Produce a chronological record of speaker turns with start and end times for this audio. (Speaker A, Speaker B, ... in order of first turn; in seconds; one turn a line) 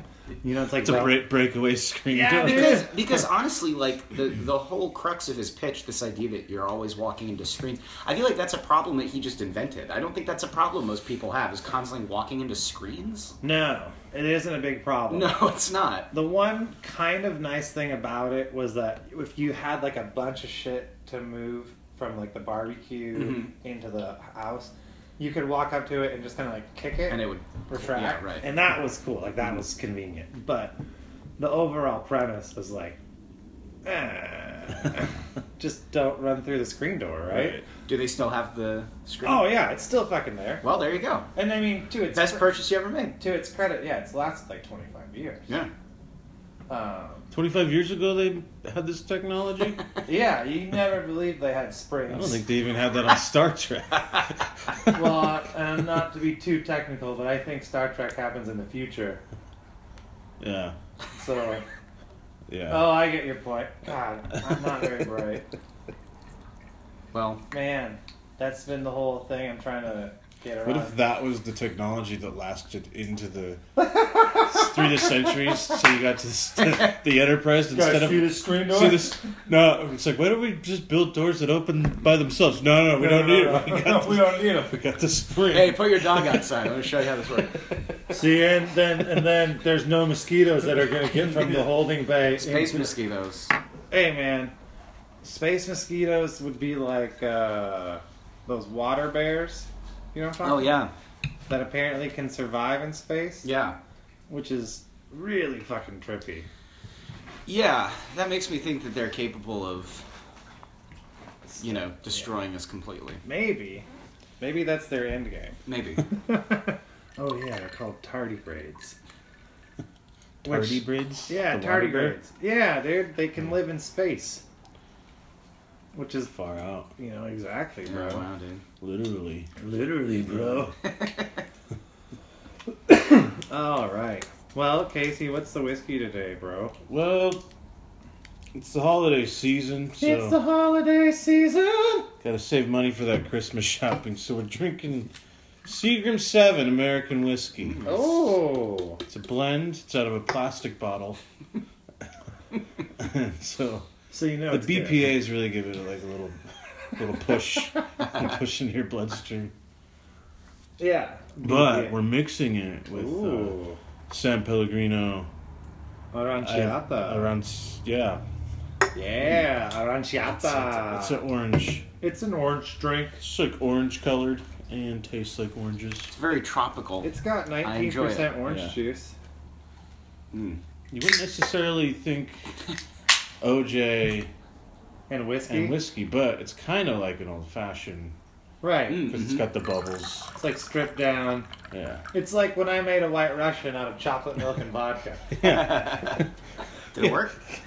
Speaker A: 0.4-1.2
Speaker B: 0.8-2.9
Speaker A: 2.1-2.9
Speaker C: 2.4-13.3
Speaker A: 13.4-15.4
Speaker C: 15.1-16.1
Speaker A: 16.1-30.8
Speaker C: 23.1-23.5
Speaker C: 27.1-28.4
Speaker A: 31.4-33.0
Speaker A: 33.8-37.6
Speaker B: 37.3-37.6
Speaker C: 37.8-39.6
Speaker A: 39.2-40.6
Speaker C: 40.6-41.3
Speaker A: 41.3-42.5
Speaker C: 42.1-43.1
Speaker A: 43.1-45.6
Speaker A: 46.7-47.3
Speaker B: 47.3-49.8
Speaker A: 50.0-52.4
Speaker B: 52.1-55.1
Speaker A: 54.9-59.2
Speaker B: 60.4-60.7
Speaker A: 61.1-61.6
Speaker B: 62.5-63.0
Speaker A: 62.7-65.5
Speaker C: 67.1-67.4
Speaker A: 67.5-71.0
Speaker B: 70.6-73.6
Speaker A: 73.8-75.5
Speaker B: 74.3-86.5
Speaker A: 77.7-79.2
Speaker A: 82.9-84.8
Speaker C: 85.5-87.6
Speaker A: 88.1-92.9
Speaker C: 92.4-93.5
Speaker A: 93.9-94.5
Speaker A: 95.2-100.8
Speaker C: 100.4-100.9
Speaker A: 101.5-103.5
Speaker C: 103.4-103.8
Speaker A: 104.3-106.5
Speaker C: 107.5-110.0
Speaker A: 111.5-112.2
Speaker C: 111.6-113.2
Speaker A: 113.2-113.8
Speaker A: 114.4-119.0
Speaker C: 115.7-116.0
Speaker B: 120.4-122.2
Speaker A: 120.4-124.4
Speaker A: 125.9-126.3
Speaker B: 126.3-126.9
Speaker A: 127.0-128.2
Speaker C: 127.8-128.6
Speaker B: 128.8-129.5
Speaker A: 129.6-130.8
Speaker B: 130.2-130.7
Speaker C: 130.8-131.3
Speaker A: 132.9-136.7
Speaker B: 136.9-137.4
Speaker B: 138.5-140.4
Speaker A: 140.0-142.1
Speaker B: 142.2-145.1
Speaker B: 145.6-147.9
Speaker A: 147.8-149.0
Speaker B: 149.1-151.2
Speaker B: 153.0-153.9
Speaker A: 154.1-155.1
Speaker B: 154.5-159.5
Speaker A: 160.8-162.0
Speaker B: 161.4-163.6
Speaker A: 162.9-163.8
Speaker B: 164.1-165.3
Speaker A: 166.1-167.3
Speaker B: 166.4-168.2
Speaker A: 168.9-171.2
Speaker B: 170.3-171.8
Speaker A: 172.0-173.2
Speaker B: 173.2-176.1
Speaker C: 176.1-177.1
Speaker A: 177.0-179.1
Speaker C: 177.6-178.4
Speaker B: 178.4-178.8
Speaker C: 180.3-180.6
Speaker B: 180.9-182.5
Speaker B: 183.4-184.3
Speaker A: 185.1-185.8
Speaker B: 185.5-188.2
Speaker A: 188.6-189.1
Speaker C: 188.9-189.5
Speaker B: 188.9-190.3
Speaker A: 190.3-191.5
Speaker B: 191.7-192.0
Speaker A: 192.1-195.4
Speaker B: 195.4-196.2
Speaker C: 195.4-196.3
Speaker C: 196.9-197.4